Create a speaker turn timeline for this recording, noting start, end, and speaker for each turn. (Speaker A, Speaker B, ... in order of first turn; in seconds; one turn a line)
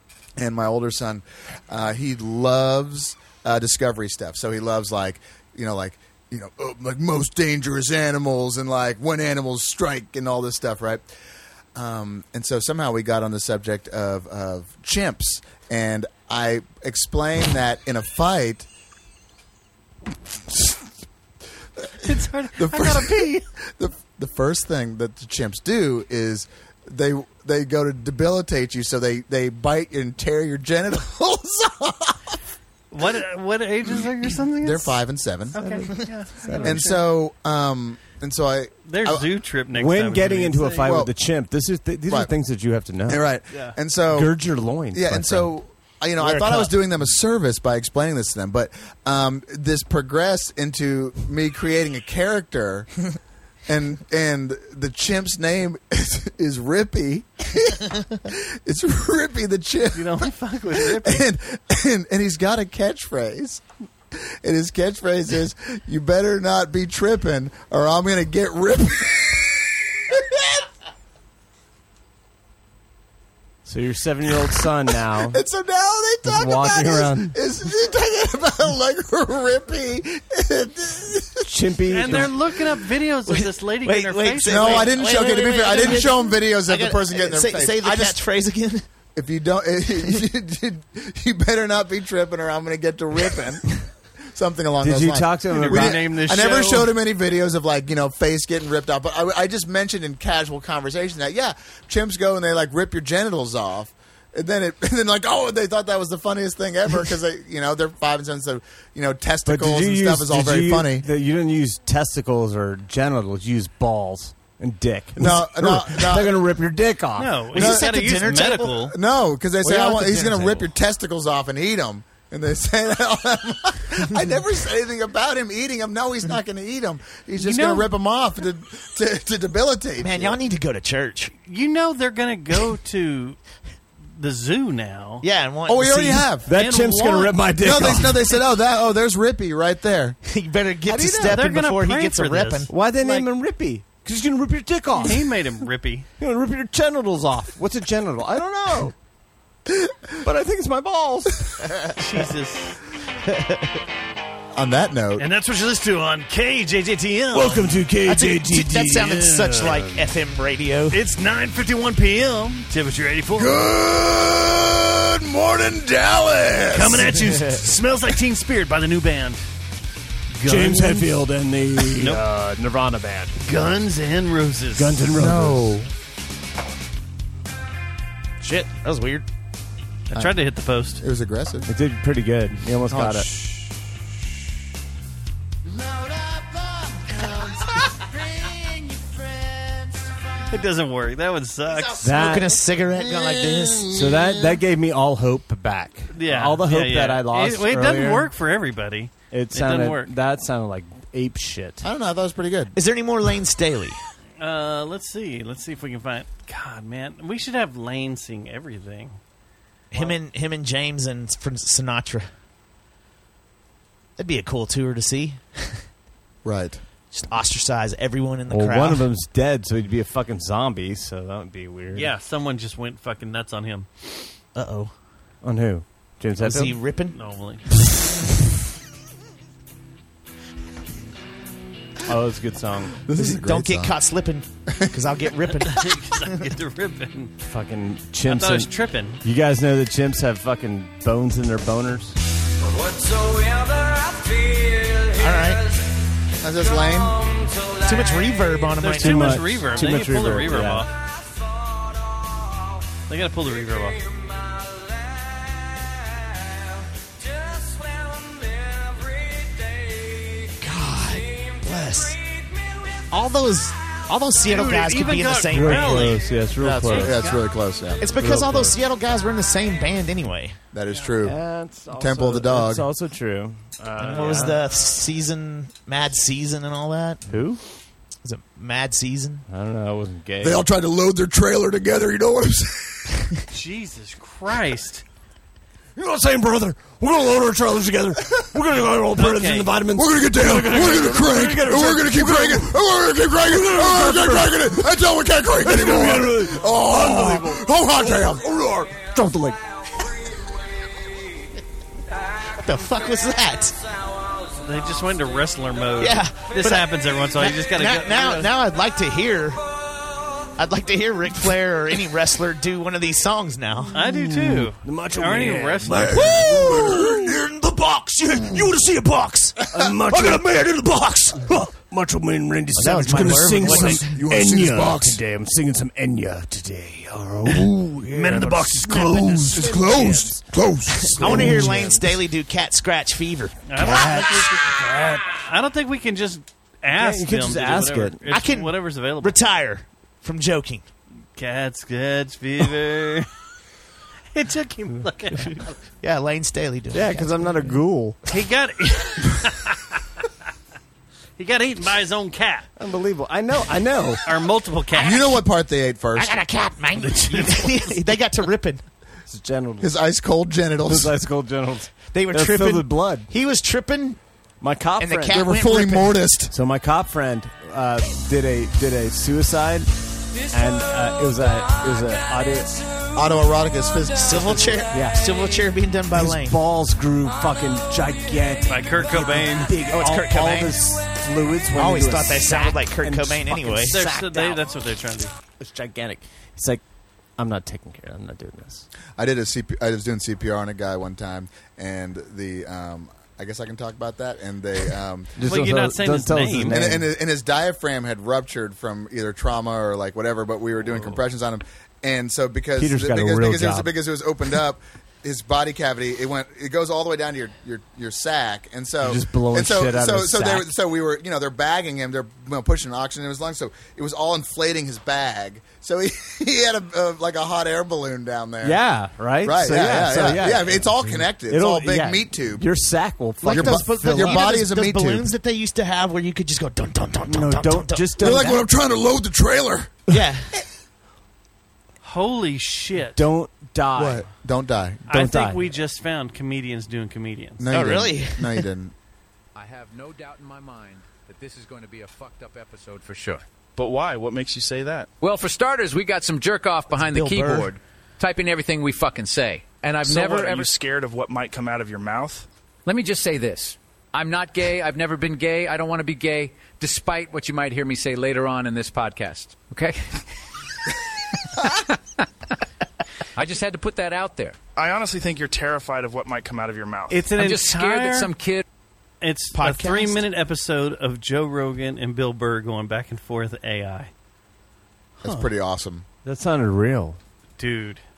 Speaker A: 0.4-11.1
Speaker A: 11.8-18.7
Speaker A: 20.5-20.8
Speaker A: 21.8-32.4
Speaker B: 22.0-23.4
Speaker B: 32.9-35.0
Speaker A: 34.5-35.6
Speaker B: 35.5-37.0
Speaker C: 35.5-36.9
Speaker A: 36.6-39.3
Speaker B: 38.9-40.9
Speaker C: 39.7-43.2
Speaker A: 40.7-41.1
Speaker A: 42.1-42.3
Speaker A: 43.1-44.4
Speaker C: 44.1-45.5
Speaker A: 44.9-52.9
Speaker D: 46.2-46.7
Speaker A: 53.7-70.6
Speaker B: 59.9-61.3
Speaker C: 73.7-75.4
Speaker A: 75.2-81.5
Speaker C: 76.2-77.3
Speaker C: 81.5-82.3
Speaker B: 81.9-84.9
Speaker A: 82.0-82.3
Speaker D: 83.3-88.8
Speaker A: 84.4-88.2
Speaker A: 89.2-93.7
Speaker A: 94.3-111.1
Speaker C: 94.8-96.0
Speaker B: 95.5-96.9
Speaker C: 109.5-117.4
Speaker A: 115.2-116.4
Speaker B: 117.2-119.0
Speaker D: 117.5-118.8
Speaker A: 117.5-130.4
Speaker D: 119.6-120.7
Speaker B: 127.4-127.9
Speaker D: 130.0-131.3
Speaker B: 131.5-133.4
Speaker B: 134.2-135.2
Speaker D: 135.2-136.3
Speaker A: 135.7-136.5
Speaker C: 136.5-138.2
Speaker B: 136.5-137.4
Speaker A: 137.6-140.2
Speaker D: 140.3-142.7
Speaker C: 140.9-141.4
Speaker B: 141.3-143.3
Speaker C: 142.7-145.3
Speaker B: 145.0-146.1
Speaker C: 146.2-148.9
Speaker C: 150.2-151.5
Speaker B: 152.0-152.8
Speaker D: 153.3-153.6
Speaker A: 154.5-155.3
Speaker B: 155.2-157.8
Speaker C: 157.3-160.1
Speaker D: 158.0-161.0
Speaker B: 160.9-163.7
Speaker A: 163.3-167.2
Speaker B: 166.7-169.4
Speaker B: 170.3-171.1
Speaker C: 170.4-173.4
Speaker B: 171.9-172.2
Speaker B: 173.4-175.0
Speaker C: 174.8-175.7
Speaker A: 175.1-175.9
Speaker D: 178.4-179.2
Speaker B: 180.1-181.0
Speaker A: 181.0-181.7
Speaker C: 181.7-183.3
Speaker A: 182.9-183.7
Speaker A: 187.1-187.8
Speaker B: 190.5-192.1
Speaker D: 191.8-193.9
Speaker C: 192.0-192.6
Speaker A: 193.4-194.1
Speaker C: 193.9-198.3
Speaker B: 196.1-200.1
Speaker C: 199.3-201.8
Speaker A: 201.8-202.8
Speaker D: 202.8-204.0
Speaker B: 204.4-209.2
Speaker D: 209.9-212.3
Speaker D: 214.2-215.8
Speaker A: 216.4-216.8
Speaker D: 217.1-219.0
Speaker C: 218.5-222.1
Speaker B: 221.9-224.2
Speaker D: 224.6-224.9
Speaker C: 225.4-226.8
Speaker D: 226.4-227.2
Speaker B: 227.1-227.7
Speaker C: 232.1-233.0
Speaker A: 233.0-233.9
Speaker D: 233.2-236.4
Speaker B: 235.6-237.3
Speaker C: 237.4-238.7
Speaker B: 238.2-239.2
Speaker C: 239.2-242.2
Speaker D: 245.1-245.7
Speaker A: 246.4-247.2
Speaker D: 247.8-249.4
Speaker B: 248.8-250.9
Speaker C: 248.9-250.9
Speaker B: 253.1-254.1
Speaker D: 260.6-262.2
Speaker D: 263.1-266.2
Speaker B: 264.5-266.3
Speaker C: 265.5-267.3
Speaker A: 266.6-268.1
Speaker B: 266.9-267.4
Speaker D: 268.0-270.6
Speaker C: 268.2-268.7
Speaker A: 270.7-272.9
Speaker C: 271.2-274.6
Speaker D: 274.0-277.3
Speaker C: 277.3-277.6
Speaker D: 278.2-279.4
Speaker C: 279.5-280.6
Speaker A: 280.4-283.2
Speaker B: 283.5-285.0
Speaker C: 286.0-294.8
Speaker B: 289.1-289.7
Speaker A: 289.9-298.7
Speaker C: 295.5-299.6
Speaker D: 302.5-303.8
Speaker B: 304.6-308.5
Speaker D: 306.0-309.6
Speaker D: 310.6-313.9
Speaker B: 313.9-316.6
Speaker C: 313.9-317.4
Speaker D: 316.1-319.6
Speaker A: 316.3-317.3
Speaker C: 318.3-319.0
Speaker C: 319.7-332.1
Speaker A: 319.8-320.4
Speaker D: 322.8-324.2
Speaker A: 323.1-325.2
Speaker D: 328.3-329.2
Speaker B: 328.4-329.1
Speaker A: 329.4-331.8
Speaker D: 331.1-334.3
Speaker B: 333.7-339.4
Speaker C: 333.8-334.3
Speaker C: 335.0-335.4
Speaker C: 336.9-338.2
Speaker D: 338.3-340.9
Speaker B: 341.4-343.3
Speaker B: 344.3-345.8
Speaker D: 346.0-347.4
Speaker C: 346.9-348.2
Speaker B: 348.3-350.0
Speaker B: 351.4-352.7
Speaker C: 352.8-354.2
Speaker B: 354.2-355.4
Speaker A: 354.9-356.4
Speaker D: 356.1-358.8
Speaker B: 357.3-357.7
Speaker C: 359.3-359.9
Speaker A: 359.8-361.1
Speaker C: 360.9-363.3
Speaker D: 362.1-364.2
Speaker C: 364.6-365.4
Speaker D: 365.0-366.2
Speaker A: 365.3-366.5
Speaker C: 366.5-369.9
Speaker C: 370.5-372.8
Speaker A: 373.1-374.9
Speaker D: 374.1-376.6
Speaker C: 374.9-375.2
Speaker C: 376.1-384.6
Speaker B: 378.7-379.9
Speaker D: 379.7-380.8
Speaker D: 381.8-384.0
Speaker B: 383.9-385.4
Speaker C: 385.6-386.8
Speaker C: 387.4-388.9
Speaker A: 389.2-395.3
Speaker C: 395.4-397.1
Speaker B: 395.4-396.9
Speaker A: 396.7-418.8
Speaker C: 402.8-403.9
Speaker C: 409.0-410.7
Speaker C: 418.6-424.4
Speaker A: 419.4-422.7
Speaker D: 423.4-428.6
Speaker A: 423.5-425.3
Speaker C: 427.3-428.6
Speaker A: 428.2-430.1
Speaker D: 430.1-430.5
Speaker B: 432.0-433.2
Speaker C: 433.1-434.3
Speaker A: 433.9-435.1
Speaker B: 435.1-437.6
Speaker C: 435.1-435.7
Speaker A: 437.6-438.9
Speaker D: 437.7-438.7
Speaker E: 439.6-443.4
Speaker F: 443.8-445.1
Speaker E: 445.2-450.7
Speaker D: 447.0-447.7
Speaker F: 450.0-452.5
Speaker E: 452.9-460.3
Speaker E: 461.6-462.0
Speaker E: 463.4-464.6
Speaker F: 464.8-467.3
Speaker B: 467.1-468.3
Speaker E: 467.3-468.6
Speaker B: 469.2-474.1
Speaker D: 469.5-470.2
Speaker A: 475.2-476.1
Speaker C: 476.2-477.2
Speaker B: 477.6-478.0